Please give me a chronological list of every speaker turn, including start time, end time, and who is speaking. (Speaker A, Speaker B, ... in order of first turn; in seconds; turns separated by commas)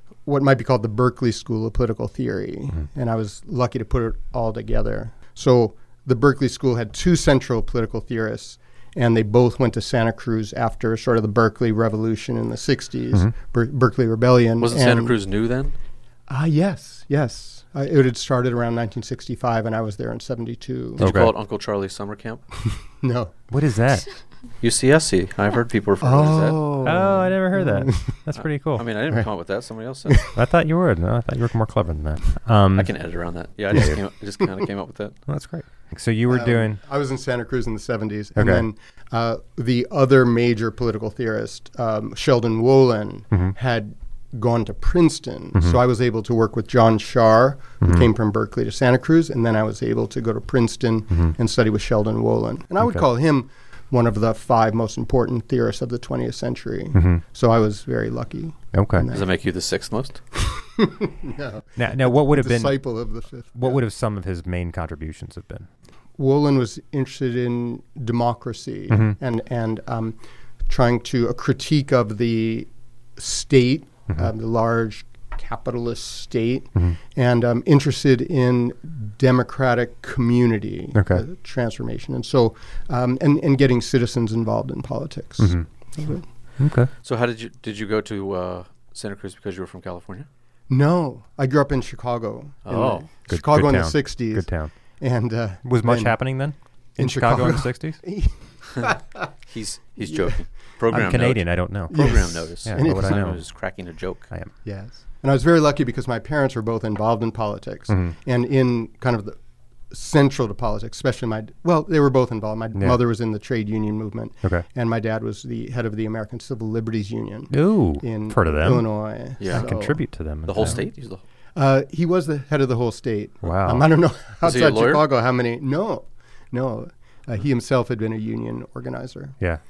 Speaker A: 0.2-15.2, Speaker B: 14.6-15.7, Speaker A: 16.3-21.0, Speaker B: 21.0-22.4, Speaker C: 21.0-21.4, Speaker A: 22.7-23.4, Speaker C: 23.5-24.1, Speaker B: 24.6-26.7, Speaker A: 26.0-28.2, Speaker C: 26.8-28.9, Speaker B: 28.8-30.3, Speaker C: 30.3-32.9, Speaker B: 32.8-35.2, Speaker A: 33.7-34.0, Speaker C: 35.3-36.8, Speaker A: 36.3-59.2, Speaker C: 38.4-38.7, Speaker C: 47.8-48.1, Speaker C: 52.8-53.1, Speaker C: 56.9-57.2, Speaker C: 58.7-59.1, Speaker B: 59.1-60.2, Speaker A: 60.4-63.8, Speaker C: 61.8-62.8, Speaker C: 63.5-65.7, Speaker A: 66.2-86.2, Speaker C: 68.9-69.2, Speaker C: 81.0-81.2, Speaker C: 85.4-85.7, Speaker C: 86.6-86.9, Speaker B: 87.0-90.3, Speaker A: 90.7-96.3, Speaker B: 92.7-93.1, Speaker C: 93.3-94.7, Speaker C: 95.6-98.0, Speaker A: 97.0-99.3, Speaker B: 99.5-104.3, Speaker A: 100.1-100.3, Speaker C: 100.9-103.4, Speaker A: 101.9-103.2, Speaker A: 104.6-109.4, Speaker C: 107.9-108.1, Speaker A: 109.9-120.0, Speaker C: 117.5-118.9, Speaker B: 119.4-119.7, Speaker C: 119.4-120.8, Speaker B: 120.4-121.2, Speaker A: 121.6-129.3, Speaker C: 123.4-123.9, Speaker B: 124.4-125.1